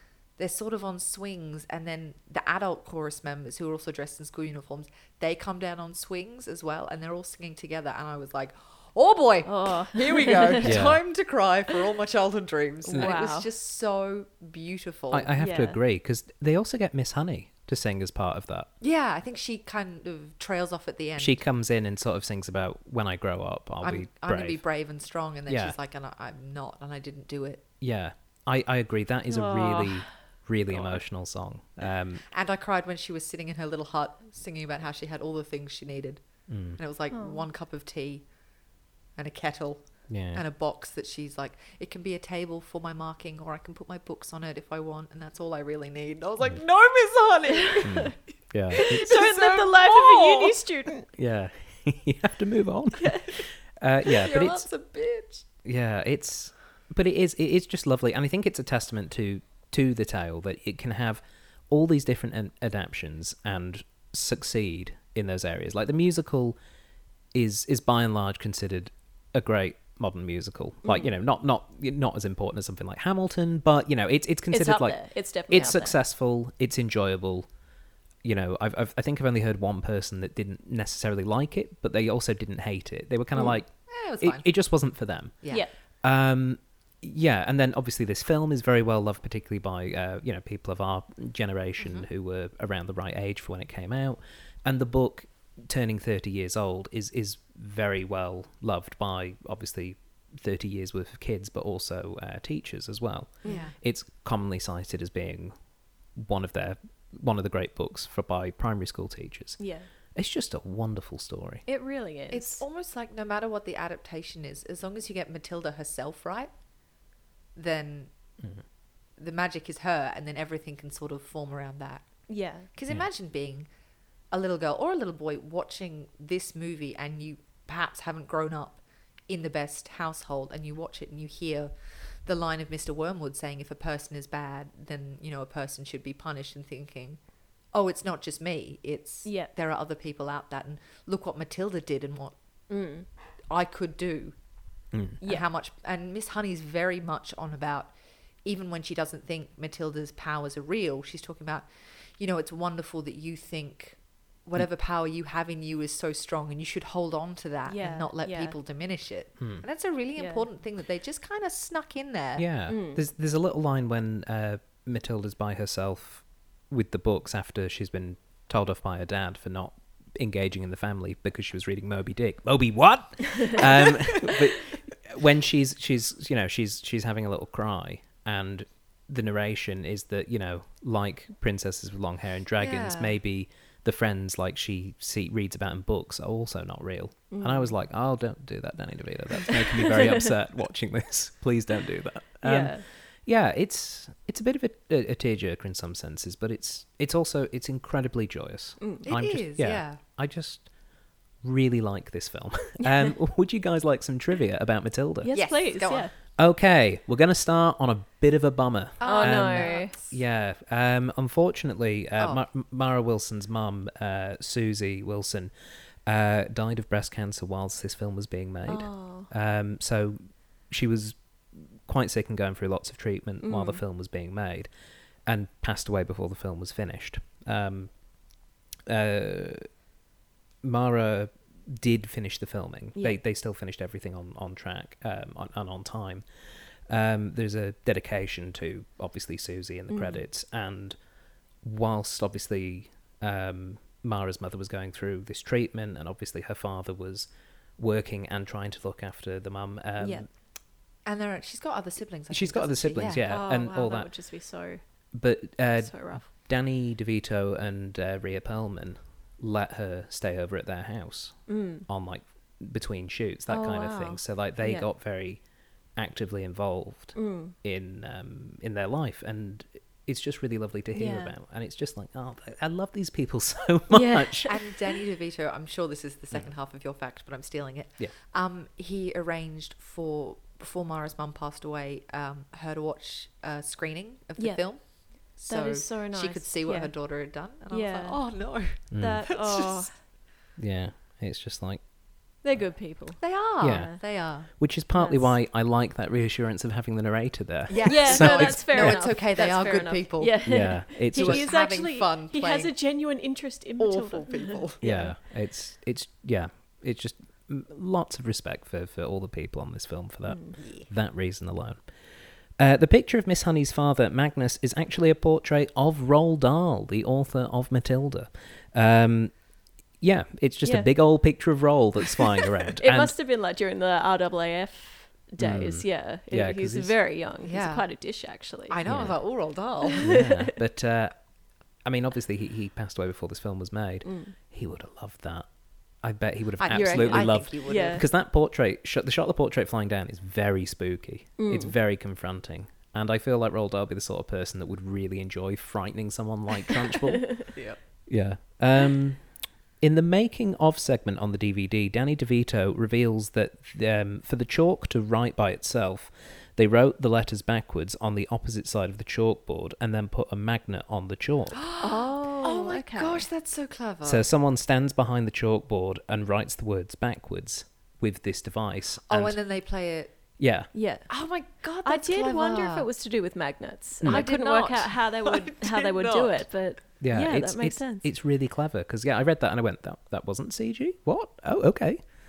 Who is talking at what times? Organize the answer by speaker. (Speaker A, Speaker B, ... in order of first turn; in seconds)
Speaker A: 0.4-15.3, 18.8-21.4, 23.8-27.6, 32.3-36.2, 36.8-38.2, 39.1-48.1, 48.7-50.6, 54.0-55.5, 83.9-84.4, 91.8-92.0, 103.4-103.7, 112.3-116.5, 117.5-118.1, 119.2-122.1, 122.7-123.7, 124.3-137.2, 137.7-142.3, 143.5-144.3, 145.2-147.9, 148.4-162.4, 173.6-174.3, 182.6-183.2, 199.0-200.0, 205.3-206.1, 209.0-210.2, 212.2-212.4, 251.0-253.2, 274.4-284.8, 285.4-289.9, 293.2-294.5, 297.7-302.7, 303.8-304.8, 310.6-310.9, 327.4-327.9, 328.7-330.1, 336.6-338.1, 347.5-347.8, 361.5-364.2, 369.1-370.1, 371.1-372.9, 374.0-376.4
Speaker B: 9.4-10.8, 12.9-13.5, 15.4-15.8, 29.3-30.1, 30.7-31.0, 37.1-37.4, 47.7-48.0, 48.8-51.0, 53.0-53.3, 70.8-71.1, 74.5-76.0, 103.4-103.7, 109.6-109.9, 111.7-112.6, 122.3-122.7, 139.2-139.5, 142.7-143.1, 145.2-145.5, 157.7-158.5, 160.2-160.4, 162.7-163.0, 187.3-187.7, 192.4-192.8, 198.8-199.1, 202.8-203.1, 205.2-206.1, 209.0-209.9, 218.7-219.3, 223.4-223.8, 239.9-240.2, 250.0-250.2, 253.3-254.8, 255.8-256.3, 261.5-261.9, 263.5-264.9, 267.1-267.5, 270.9-271.3, 273.9-274.5, 284.4-284.7, 285.3-286.9, 287.7-288.2, 288.8-289.9, 292.4-294.0, 294.9-295.3, 297.9-305.1, 310.3-310.5, 320.6-320.9, 322.8-328.8, 329.9-330.5, 334.0-334.3, 336.7-338.0, 341.4-341.7, 361.8-363.2, 370.7-371.1, 371.8-378.1
Speaker C: 10.6-11.0, 15.1-18.7, 21.2-24.6, 25.5-25.7, 27.8-32.2, 36.5-36.8, 40.1-40.4, 47.8-49.1, 51.1-54.7, 55.6-66.6, 67.3-77.5, 78.2-83.7, 84.2-85.3, 86.0-105.5, 106.2-109.6, 110.1-111.6, 144.9-145.2, 162.4-200.7, 201.4-205.3, 206.4-215.5, 216.1-221.2, 221.8-224.7, 225.2-227.9, 228.9-229.7, 230.6-236.2, 236.9-240.9, 241.6-250.3, 252.3-254.1, 255.1-265.4, 265.9-274.5, 288.9-289.2, 290.6-291.8, 293.6-293.9, 294.5-299.0, 300.4-301.4, 304.8-311.8, 312.6-319.3, 320.0-323.1, 325.4-326.9, 328.9-329.1, 330.0-331.1, 331.8-335.5, 336.0-347.4, 348.1-349.2, 349.8-361.6, 364.0-369.4, 370.4-370.7, 374.0-374.3, 377.0-382.0